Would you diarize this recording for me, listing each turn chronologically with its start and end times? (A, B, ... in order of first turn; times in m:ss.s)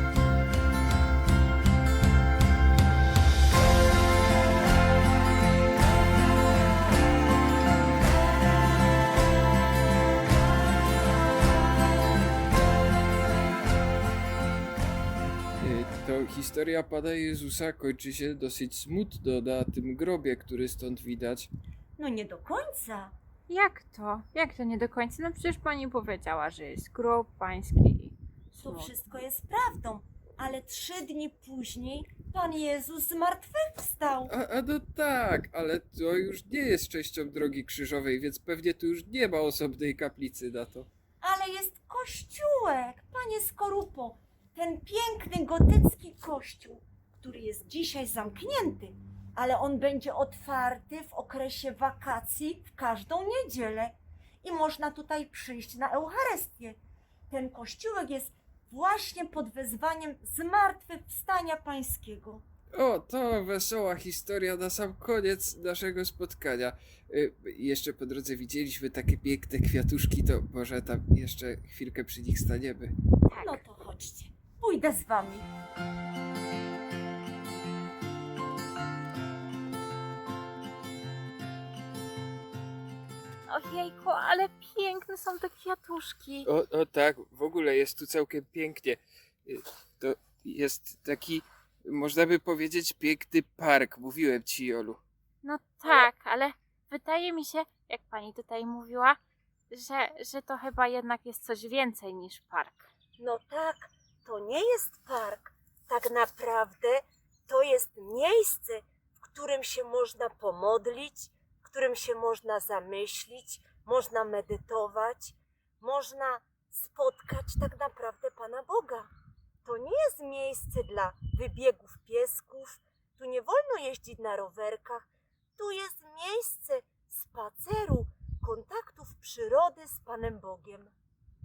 0:15.6-0:21.5 A
0:22.0-0:23.1 B
0:23.5-0:28.9 C
0:28.6-0:34.3 B
0:34.3-0:40.9 A
0:41.2-0:56.8 B
0:57.3-1:02.4 B
1:02.7-1:12.9 A
1:13.3-1:13.6 C
1:13.3-1:15.5 B
1:23.5-1:26.5 C
1:26.4-1:35.0 A
1:35.4-1:39.2 C
1:39.7-1:42.8 C
1:43.2-1:59.1 B
1:59.6-2:10.9 B